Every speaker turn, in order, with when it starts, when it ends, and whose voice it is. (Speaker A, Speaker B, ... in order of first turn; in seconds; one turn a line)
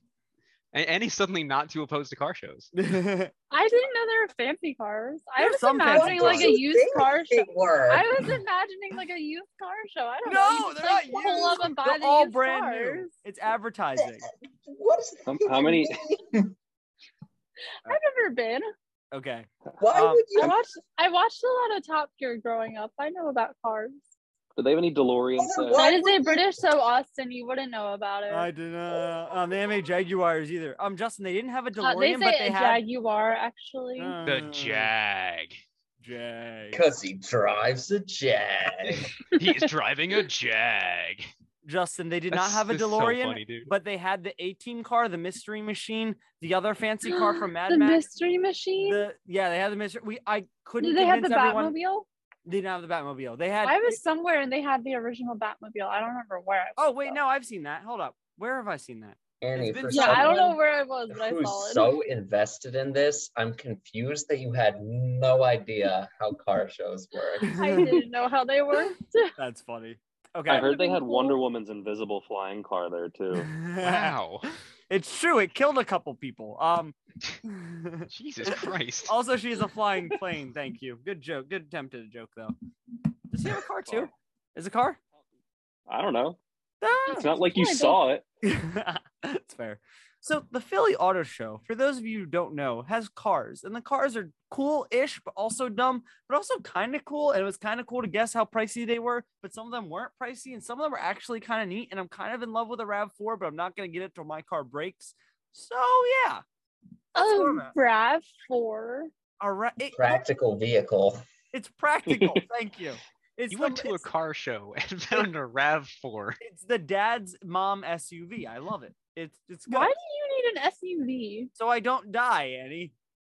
Speaker A: 0.7-2.7
Speaker B: 2.8-3.3
Speaker C: 3.5-13.1
Speaker B: 5.4-6.6
Speaker D: 5.9-8.4
Speaker B: 10.2-14.2
Speaker D: 14.0-16.5
Speaker E: 15.3-16.0
Speaker C: 17.8-18.7
Speaker B: 19.1-20.3
Speaker D: 19.8-20.6
Speaker C: 20.4-24.0
Speaker E: 24.6-25.8
Speaker D: 25.4-26.6
Speaker C: 25.7-28.5
Speaker B: 28.3-32.8
Speaker C: 31.8-34.1
Speaker B: 34.0-34.9
Speaker A: 34.2-35.6
Speaker B: 36.0-36.8
Speaker D: 36.7-39.1
Speaker A: 38.8-41.3
Speaker B: 41.6-48.0
Speaker A: 42.3-43.7
Speaker C: 47.0-49.0
Speaker B: 48.8-51.8
Speaker C: 50.8-52.1
Speaker B: 52.5-54.0
Speaker C: 53.6-57.2
Speaker B: 56.8-60.5
Speaker D: 59.4-60.6
Speaker C: 59.9-62.0
Speaker D: 61.1-67.9
Speaker B: 67.4-68.0
Speaker C: 67.5-69.3
Speaker B: 69.4-70.7
Speaker E: 70.5-73.5
Speaker C: 70.6-71.4
Speaker B: 73.3-82.5
Speaker A: 73.8-74.5
Speaker A: 78.1-79.2
Speaker B: 83.3-85.0
Speaker E: 83.8-84.1
Speaker E: 85.9-86.4
Speaker B: 86.8-87.3
Speaker C: 87.1-88.0
Speaker E: 87.1-88.2
Speaker B: 88.4-106.4
Speaker B: 107.2-107.7
Speaker C: 107.2-109.1
Speaker B: 109.4-110.2
Speaker D: 109.9-111.2
Speaker B: 111.5-114.1
Speaker E: 112.1-112.4
Speaker A: 113.5-116.4
Speaker B: 116.4-119.9
Speaker C: 119.7-121.5
Speaker B: 121.6-122.9